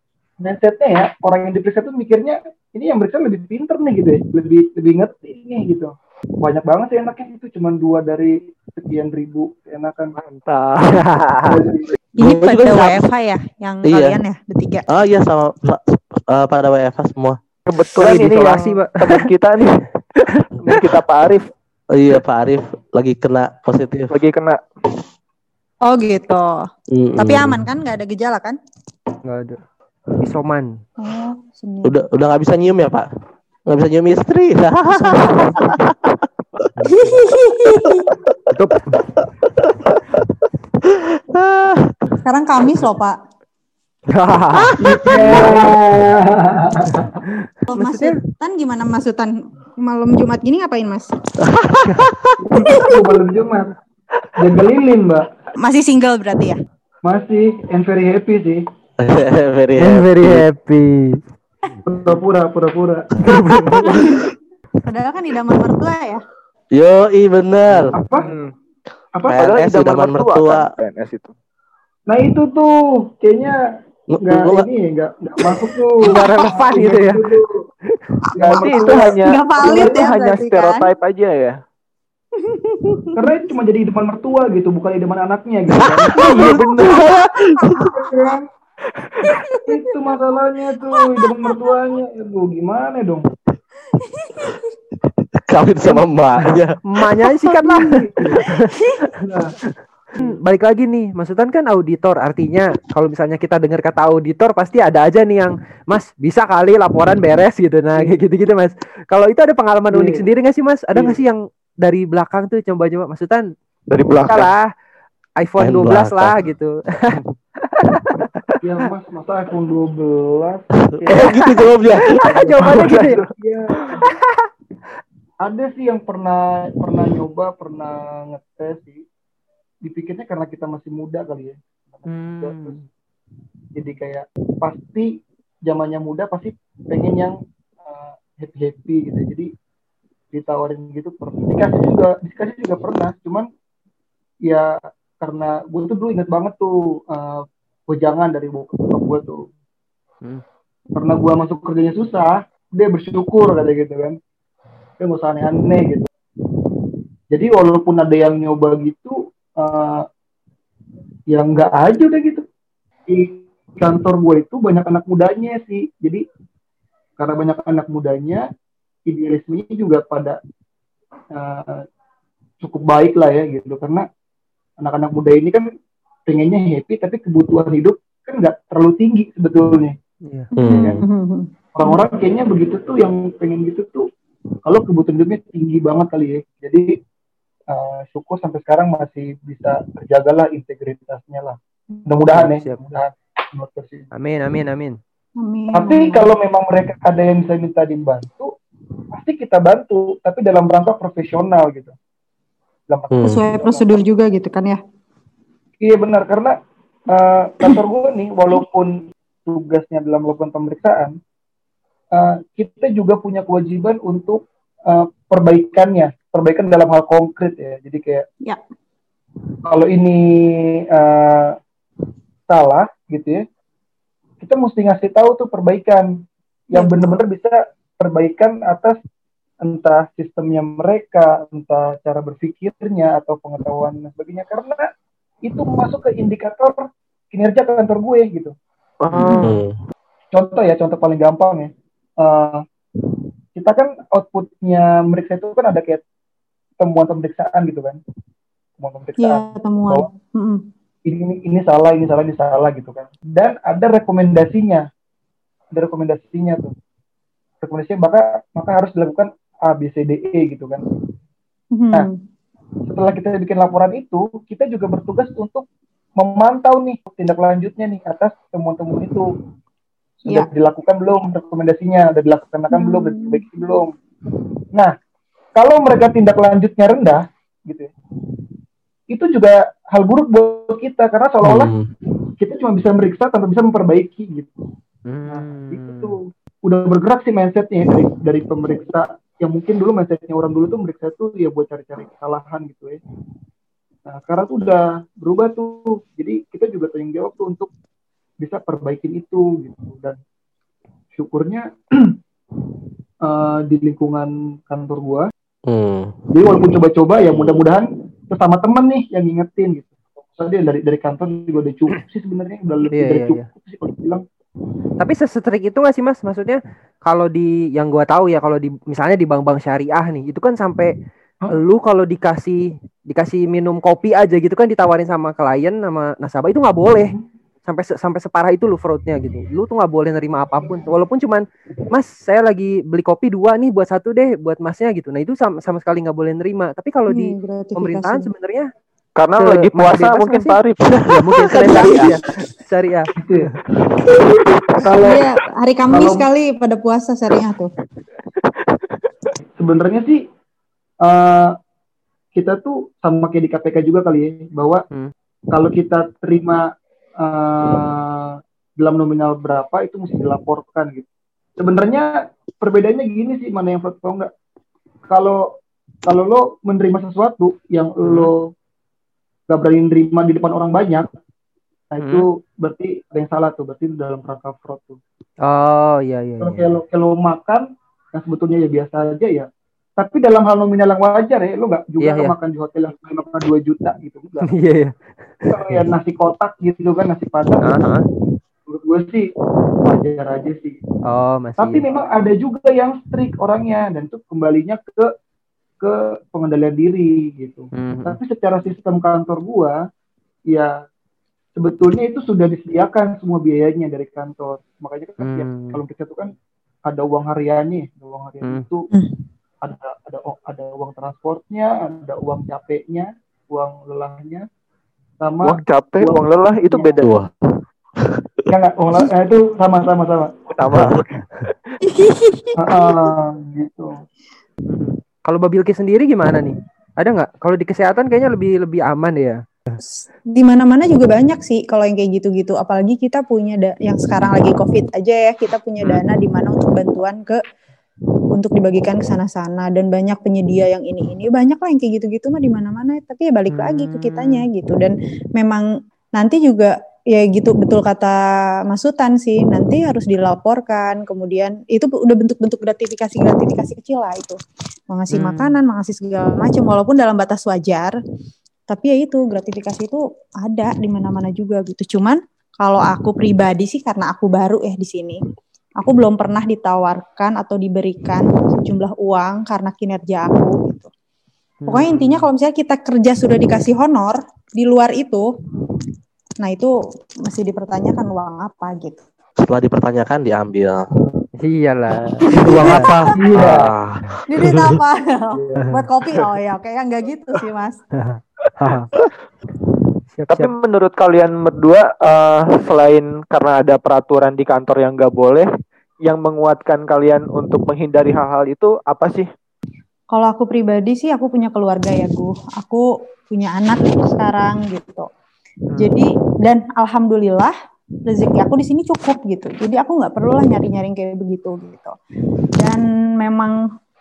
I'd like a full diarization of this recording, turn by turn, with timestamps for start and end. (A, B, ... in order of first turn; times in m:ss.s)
0:00.4-0:10.1 A
0:10.2-0:11.0 B
0:10.9-0:11.6 C
0:11.4-0:11.9 A
0:12.2-0:13.0 D
0:12.2-0:14.8 E
0:13.8-0:14.2 D
0:14.9-0:17.4 D
0:17.7-0:21.5 B
0:18.0-0:19.2 C
0:21.9-0:24.1 D
0:24.1-0:24.6 B
0:25.8-0:28.6 E
0:26.9-0:27.7 D
0:29.2-0:29.6 C
0:30.2-0:30.7 C
0:31.0-0:31.9 E
0:31.8-0:33.1 D
0:33.7-0:36.2 D
0:35.0-0:35.7 E
0:36.8-0:37.2 C
0:36.9-0:38.1 E
0:37.8-0:38.1 D
0:38.5-0:39.0 C
0:39.6-0:40.0 D
0:40.8-0:41.9 D
0:42.2-0:43.2 E
0:44.1-0:45.4 C
0:44.5-0:46.0 D
0:44.8-0:47.2 A
0:47.7-0:51.1 E
0:47.7-0:48.2 C
0:51.4-0:52.4 D
0:52.4-0:53.7 A
0:52.6-0:53.1 E
0:54.4-0:55.3 A
0:55.6-0:56.6 E
0:57.0-0:58.6 A
0:59.0-1:00.4 D
0:59.8-1:01.2 C
1:01.8-1:03.1 A
1:03.2-1:04.1 C
1:03.8-1:04.2 A
1:03.8-1:04.2 E
1:04.8-1:06.2 E
1:06.7-1:07.9 D
1:07.9-1:08.3 A
1:08.2-1:08.5 B
1:09.1-1:09.4 A
1:09.3-1:10.7 D
1:09.4-1:11.3 B
1:12.1-1:13.5 A
1:14.1-1:14.7 D
1:14.2-1:17.5 A
1:16.0-1:17.3 C
1:18.3-1:20.9 E
1:18.3-1:20.1 A
1:18.4-1:21.6 B
1:22.4-1:23.1 E
1:23.2-1:26.5 A
1:25.7-1:27.9 D
1:26.2-1:27.0 B
1:26.2-1:28.3 E
1:27.8-1:28.5 A
1:28.9-1:29.3 B
1:29.2-1:30.1 E
1:29.6-1:33.2 A
1:30.8-1:31.6 E
1:34.0-1:34.7 E
1:35.5-1:36.8 D
1:36.9-1:38.7 C
1:37.6-1:38.4 A
1:39.2-1:39.5 A
1:40.2-1:53.5 C
1:49.9-1:50.2 A
1:53.9-1:54.5 B
1:54.3-1:54.7 C
1:55.4-1:57.2 C
1:55.6-1:56.3 D
1:57.8-1:58.1 C
1:58.6-2:01.3 A
2:00.8-2:02.2 D
2:01.2-2:01.5 C
2:02.1-2:03.2 C
2:02.2-2:03.8 A
2:02.6-2:03.2 B
2:04.0-2:04.4 C
2:05.4-2:09.0 A
2:09.8-2:12.8 A
2:12.0-2:12.8 C
2:13.7-2:19.5 A
2:20.3-2:23.5 A
2:24.4-2:29.5 A
2:30.9-2:34.2 A
2:35.0-2:36.1 A
2:37.3-2:40.0 A
2:41.3-2:42.4 A
2:43.1-2:46.2 A
2:47.2-2:48.4 A
2:49.1-2:50.4 A
2:51.3-2:51.8 A
2:52.6-2:54.0 A
2:54.8-2:55.6 A
2:56.3-3:00.0 A
3:00.5-3:02.0 E
3:00.6-3:01.0 D
3:00.7-3:01.0 A
3:01.7-3:04.0 A
3:04.6-3:06.9 A
3:07.7-3:14.1 A
3:12.3-3:12.8 C
3:14.1-3:15.0 C
3:15.4-3:16.4 E
3:15.7-3:18.5 A
3:19.1-3:21.9 A
3:22.9-3:24.0 A
3:23.1-3:23.4 D
3:23.2-3:24.8 E
3:25.8-3:26.6 A
3:27.1-3:31.2 A
3:32.1-3:38.2 A
3:39.6-3:41.6 A
3:42.5-3:43.4 A
3:44.4-3:46.1 A
3:46.7-3:49.0 A
3:46.7-3:47.2 E
3:49.6-3:54.8 A
3:55.4-3:58.5 A
3:59.1-3:59.6 C
3:59.4-3:59.7 D
4:00.3-4:02.6 A
4:03.6-4:06.0 A
4:06.8-4:08.0 A
4:08.8-4:10.1 A
4:09.2-4:10.6 E
4:11.0-4:14.9 A
4:15.7-4:16.7 A
4:17.6-4:20.8 A
4:21.7-4:22.2 E
4:22.8-4:29.3 A
4:30.2-4:33.9 A
4:32.7-4:33.6 E
4:35.5-4:37.9 A
4:39.1-4:41.7 A
4:41.4-4:41.9 D
4:42.4-4:44.5 A
4:45.1-4:46.1 C
4:45.3-4:53.0 A
4:54.0-4:57.7 A
4:58.4-5:00.2 A
5:01.1-5:02.2 A
5:03.2-5:05.3 A
5:05.7-5:06.2 D
5:06.3-5:14.2 A
5:12.9-5:13.4 C
5:15.0-5:20.9 C
5:21.5-5:27.1 C
5:27.6-5:38.7 C
5:37.1-5:38.3 E
5:39.2-5:40.8 B
5:39.4-5:43.5 C
5:40.8-5:42.2 D
5:43.2-5:43.5 A
5:44.8-5:45.2 A
5:45.0-5:47.7 E
5:45.9-5:46.3 A
5:49.6-5:50.2 A
5:51.0-5:51.5 A
5:52.3-5:54.8 A
5:55.5-5:56.7 A
5:57.2-6:04.3 A
6:05.1-6:08.5 A
6:08.0-6:08.3 C
6:09.5-6:11.1 A
6:11.9-6:15.0 A
6:15.4-6:16.8 C
6:16.4-6:24.5 A
6:22.0-6:22.3 C
6:24.4-6:25.9 C
6:25.5-6:27.7 A
6:27.6-6:28.0 C
6:28.7-6:29.3 A
6:29.8-6:30.8 A
6:31.0-6:31.8 C
6:31.6-6:35.0 A
6:35.8-6:39.8 A
6:37.7-6:38.2 C
6:41.6-6:46.3 A
6:45.2-6:45.8 C
6:46.8-6:48.9 A
6:49.6-6:54.4 A
6:55.2-6:57.0 A
6:55.4-6:57.1 B
6:57.0-6:57.3 D
6:58.5-7:00.4 A
7:00.5-7:01.7 B
7:00.7-7:01.0 D
7:01.8-7:02.9 E
7:02.6-7:04.0 A
7:05.2-7:09.4 C
7:09.9-7:17.4 E
7:18.3-7:34.4 E
7:23.5-7:24.5 C
7:34.9-7:38.0 E
7:35.1-7:35.6 C
7:38.7-7:45.2 E
7:45.8-7:50.9 E
7:51.6-7:52.3 C
7:51.7-7:55.3 E
7:56.4-7:56.7 E
7:57.3-7:59.0 E
7:59.4-8:00.8 D
8:01.4-8:02.9 C
8:02.3-8:03.0 E
8:02.3-8:04.7 D
8:03.1-8:03.7 A
8:04.3-8:07.8 E
8:05.3-8:05.7 A
8:08.0-8:08.9 C
8:10.1-8:10.5 C
8:10.3-8:15.5 B
8:16.0-8:19.3 B
8:20.1-8:25.1 E
8:25.7-8:26.0 B
8:25.8-8:27.5 E
8:28.0-8:32.0 E
8:32.6-8:33.6 E